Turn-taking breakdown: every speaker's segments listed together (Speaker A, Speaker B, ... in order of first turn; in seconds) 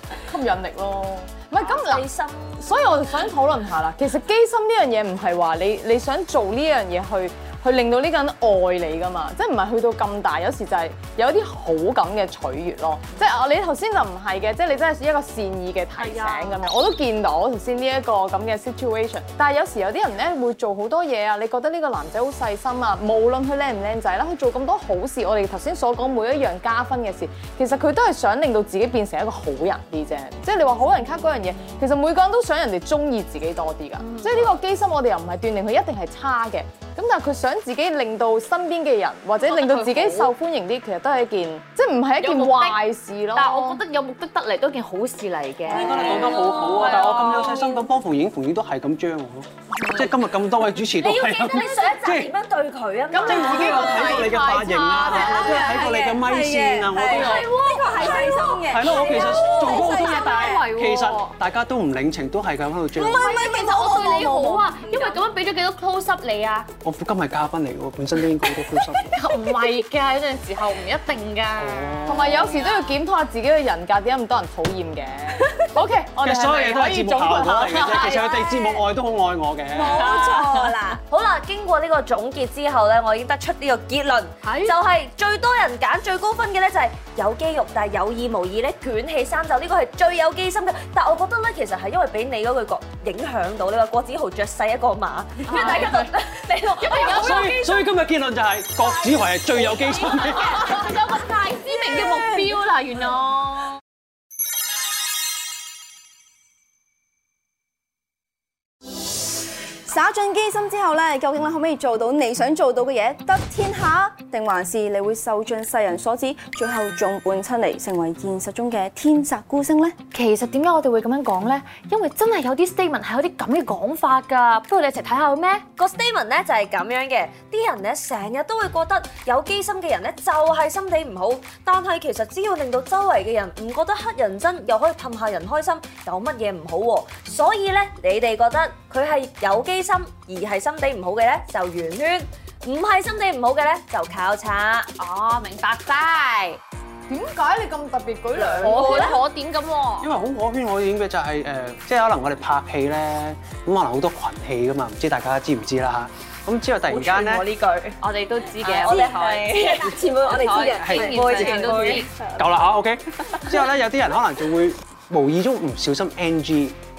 Speaker A: 0.3-2.1, 2.6-43.8, 53.1-55.9, 72.1-78.5, 147.1-149.2
Speaker B: 1.6-3.0, 51.0-54.2, 81.0-97.2, 125.7-144.9, 148.8-149.2, 157.2-157.9, 158.6-162.1
Speaker C: 34.0-34.6, 39.4-40.3, 42.2-42.8, 43.3-47.8, 57.1-61.3, 63.0-66.7, 69.1-73.0, 77.7-78.7, 80.0-80.8, 84.5-84.8, 95.5-96.1, 96.8-97.9, 98.8-103.8, 120.1-125.7, 145.0-146.6, 148.6-150.1, 158.0-162.1
Speaker D: 45.7-52.3, 53.2-63.3, 66.8-69.2, 71.6-72.6, 76.2-80.1, 97.0-100.8, 150.0-157.4, 160.9-161.2, 162.4-166.8
Speaker E: 54.9-60.6, 62.9-65.2, 79.7-81.0, 102.0-102.4, 109.9-120.0, 159.8-162.3